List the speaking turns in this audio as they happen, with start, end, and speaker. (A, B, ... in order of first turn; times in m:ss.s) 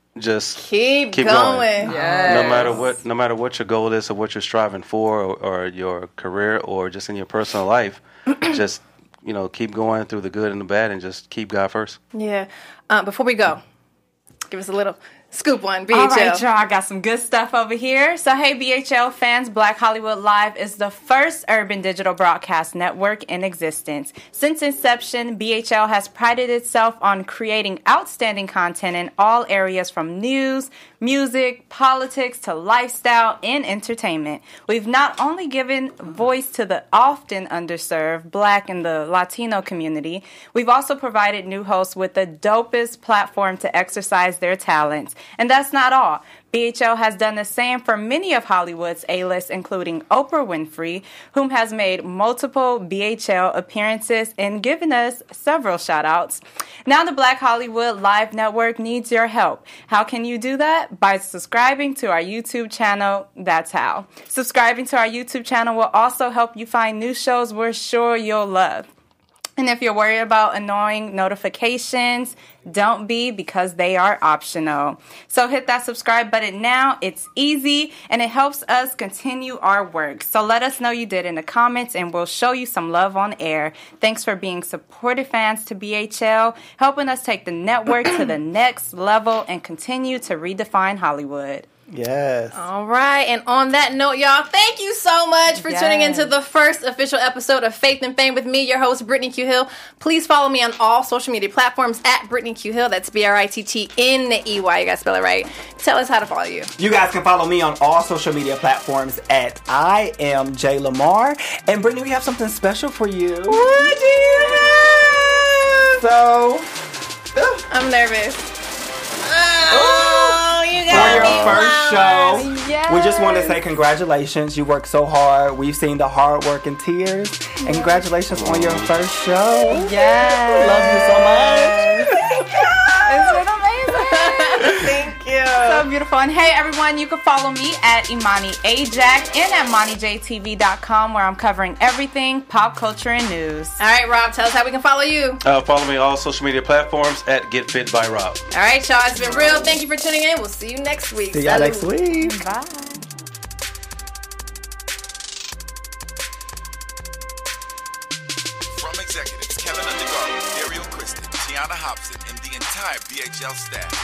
0:00.2-0:12.0 A
0:00.6-0:02.8 B
0:01.8-0:02.9 C
0:01.9-0:02.4 D
0:12.1-0:13.6 B
0:14.5-0:16.4 B
0:15.9-1:08.9 C
1:09.6-1:31.7 C
1:31.9-1:32.6 D
1:32.5-1:46.7 B
1:35.5-1:36.3 C
1:46.8-1:53.9 D
1:53.5-1:55.9 B
1:56.0-1:56.7 D
1:57.3-1:57.6 D
1:57.7-1:58.5 B
1:59.2-2:02.5 B
1:59.7-2:13.4 D
2:00.9-2:01.7 A
2:01.6-2:03.6 C
2:07.6-2:08.0 C
2:08.3-2:08.9 A
2:09.7-2:12.2 C
2:13.0-2:14.8 C
2:13.9-2:15.9 B
2:15.5-2:23.8 C
2:23.8-2:25.4 B
2:25.4-2:28.4 A
2:28.5-2:31.9 B
2:31.3-2:32.4 D
2:32.2-2:33.1 C
2:38.7-2:43.6 E